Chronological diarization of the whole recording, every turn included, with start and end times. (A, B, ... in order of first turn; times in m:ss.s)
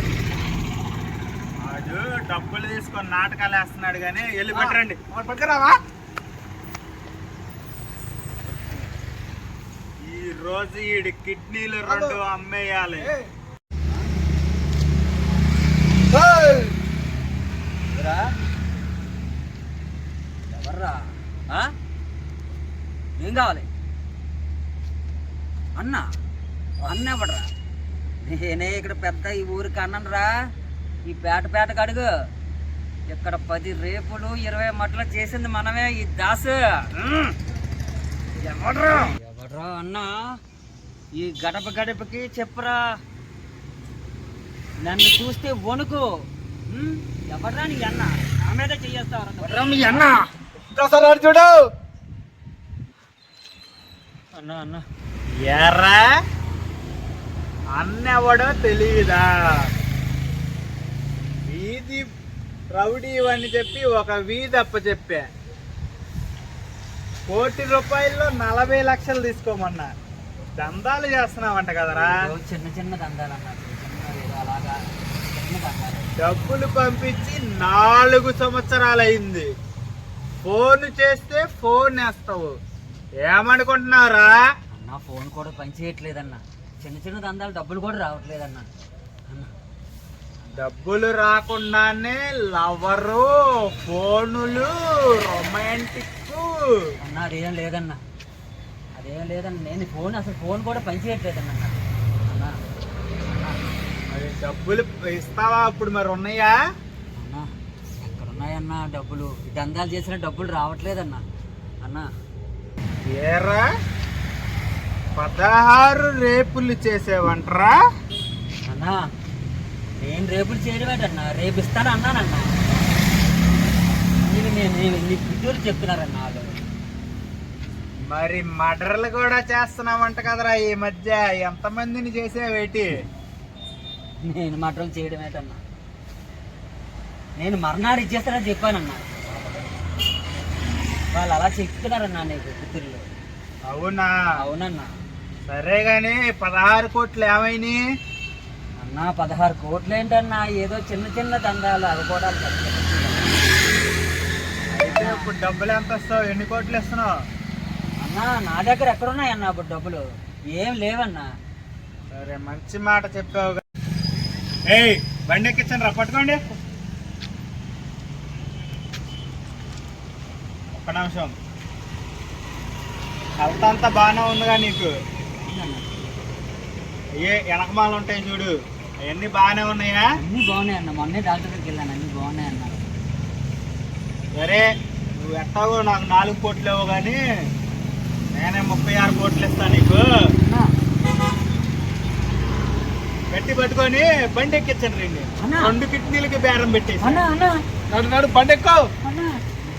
0:01.6-0:05.0 A
0:04.5-0:05.8 B
0:10.0-0:13.1 A
0:11.9-0:12.2 B
0:13.9-0:14.2 C
0:16.1-0:16.7 B
0:17.9-0:18.3 C
0:20.5-0:21.7 C
0:23.2-0:23.6 C
0:25.8-0:26.1 C
0:26.8-0:27.5 C
0:28.2-0:30.5 C
0:31.0-0:32.1 C
0:33.1-0:37.4 C
0:38.4-0:40.4 C
0:41.1-0:43.0 C
0:44.8-0:50.2 C
0:49.4-0:50.2 A
0:50.7-0:51.6 B
0:54.4-0:54.8 C
0:55.3-0:56.1 A
0:57.8-0:59.3 A
1:01.4-1:02.1 A
1:02.7-1:05.2 A
1:07.3-1:09.9 A
1:10.6-1:12.2 A
1:11.9-1:16.1 C
1:16.2-1:19.5 A
1:20.4-1:22.5 A
1:23.2-1:24.3 A
1:24.7-1:28.7 C
1:30.5-1:36.7 A
1:37.0-1:38.0 C
1:39.0-1:41.7 C
1:42.2-1:42.5 C
1:43.2-1:43.6 C
1:44.1-1:46.6 A
1:47.2-1:47.5 C
1:48.0-1:51.2 C
1:53.0-1:53.7 A
1:55.2-1:57.8 A
1:58.6-1:59.0 C
2:00.0-2:02.7 C
2:04.2-2:06.6 C
2:08.0-2:13.0 A
2:14.2-2:15.6 C
2:17.4-2:19.8 C
2:21.1-2:23.1 C
2:23.7-2:24.1 A
2:24.4-2:24.9 C
2:25.5-2:27.8 A
2:28.8-2:33.4 C
2:34.7-2:37.1 A
2:34.8-2:35.3 C
2:38.0-2:40.0 C
2:40.5-2:41.3 C
2:42.1-2:43.6 A
2:44.7-2:46.5 A
2:50.7-2:51.3 A
2:53.4-2:54.9 A
2:55.4-2:56.2 C
2:57.2-3:00.1 A
3:00.2-3:02.9 C
3:04.4-3:07.2 A
3:08.3-3:10.1 A
3:10.4-3:10.7 C
3:13.3-3:17.2 A
3:15.4-3:15.8 C
3:17.0-3:17.6 C
3:17.9-3:18.8 B
3:19.0-3:19.4 C